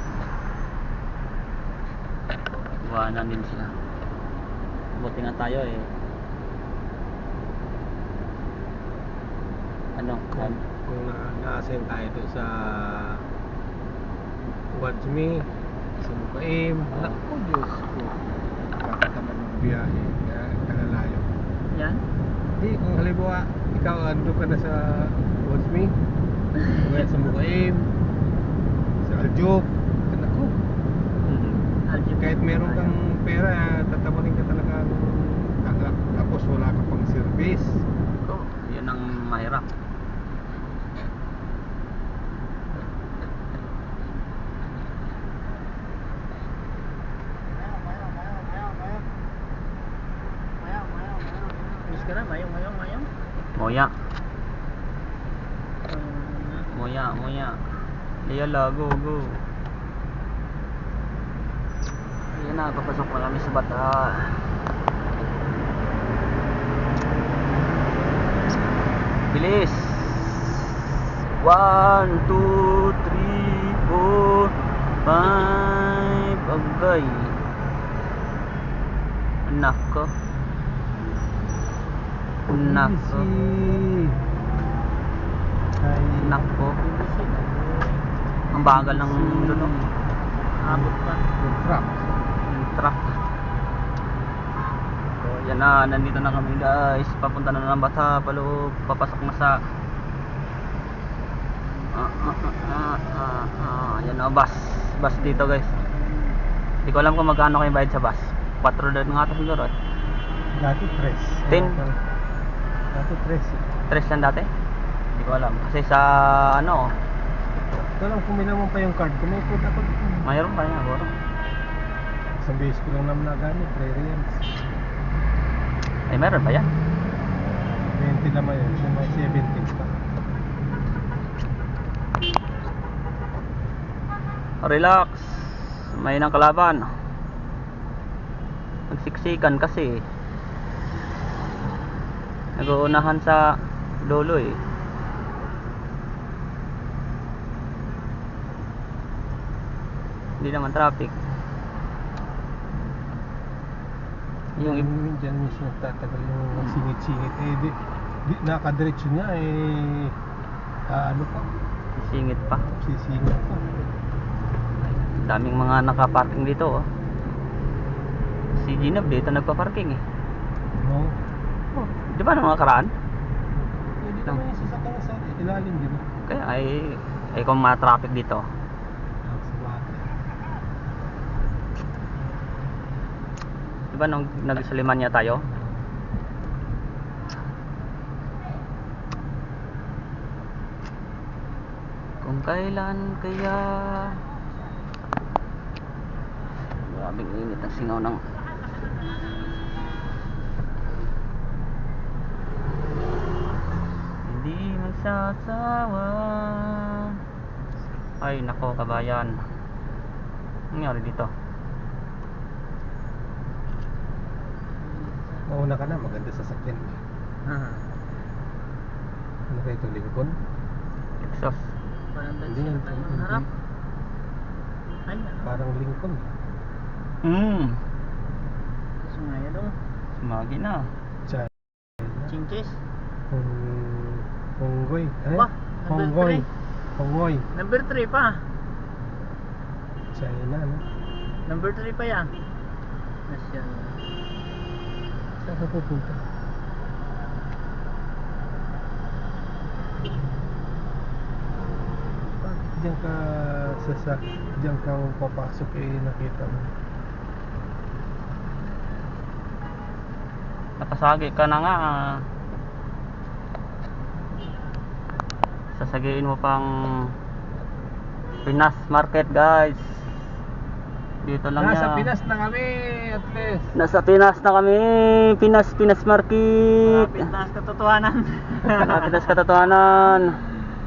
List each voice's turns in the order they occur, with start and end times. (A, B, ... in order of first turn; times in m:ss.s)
0:02.8-0:03.7 A
0:05.0-0:05.9 A
0:10.0-0:10.6 A
0:10.3-0:13.2 B
0:14.7-0:18.2 B
0:18.8-0:21.3 B
0:21.7-0:22.0 C
0:22.6-0:25.9 B
0:26.7-0:27.9 B
0:29.0-0:30.6 B
0:31.2-0:31.7 A
0:31.9-0:32.9 C
0:32.2-0:37.8 B
0:38.2-0:39.7 A
0:47.7-0:49.0 C
0:50.6-0:53.1 C
0:53.6-0:53.9 A
0:55.9-0:56.7 C
0:56.7-0:57.6 A
0:58.2-0:59.4 A
1:02.3-1:04.6 A
1:09.3-1:10.8 A
1:11.4-1:17.4 A
1:19.4-1:20.1 A
1:22.5-1:23.3 A
1:22.5-1:24.2 B
1:25.8-1:26.4 B
1:26.2-1:26.8 A
1:26.8-1:28.0 C
1:28.5-1:29.8 A
1:28.5-1:29.8 B
1:30.6-1:31.2 C
1:30.7-1:32.1 B
1:32.4-1:33.2 A
1:35.2-1:39.6 A
1:41.9-1:45.7 A
1:46.8-1:49.7 A
1:50.5-1:52.0 B
1:51.5-1:51.8 A
1:52.9-1:53.6 B
1:53.9-1:54.5 A
1:55.1-1:56.9 A
1:58.0-2:00.3 B
2:00.2-2:01.1 A
2:02.4-2:04.4 B
2:06.1-2:06.7 A
2:07.8-2:10.0 B
2:14.6-2:16.9 A
2:18.9-2:20.0 A
2:22.6-2:24.6 A
2:30.4-2:31.2 A
2:34.6-2:34.9 A
2:34.6-2:40.2 B
2:40.9-2:41.5 B
2:42.0-2:42.7 A
2:42.8-2:43.6 B
2:44.9-2:46.9 A
2:48.6-2:50.0 A
2:50.8-2:51.2 B
2:51.7-2:52.9 A
2:54.0-2:56.0 B
2:56.3-2:58.4 A
2:59.2-3:00.1 B
3:03.9-3:05.4 A
3:12.2-3:14.2 A
3:16.8-3:18.2 A
3:24.2-3:27.2 A
3:28.2-3:29.4 A
3:30.7-3:31.3 A
3:35.0-3:35.4 C
3:35.5-3:37.0 B
3:37.5-3:37.9 C
3:39.5-3:40.4 B
3:41.2-3:41.6 A
3:42.1-3:43.5 C
3:42.4-3:43.5 B
3:45.1-3:45.5 C
3:45.4-3:46.3 B
3:47.2-3:47.8 A
3:49.0-3:49.8 C
3:50.2-3:50.9 A
3:51.3-3:51.5 B
3:52.2-3:52.8 C
3:53.3-3:57.5 B
3:55.4-3:56.5 C
3:57.5-3:58.4 C
4:00.1-4:00.9 B
4:01.4-4:02.3 C
4:03.3-4:04.0 C
4:05.4-4:06.2 B
4:12.4-4:16.7 B
4:20.8-4:22.2 A
4:25.8-4:27.1 A
4:28.4-4:30.1 A
4:31.2-4:32.0 A
4:31.6-4:33.7 B
4:33.8-4:37.2 A
4:36.8-4:39.2 C
4:38.7-4:40.4 A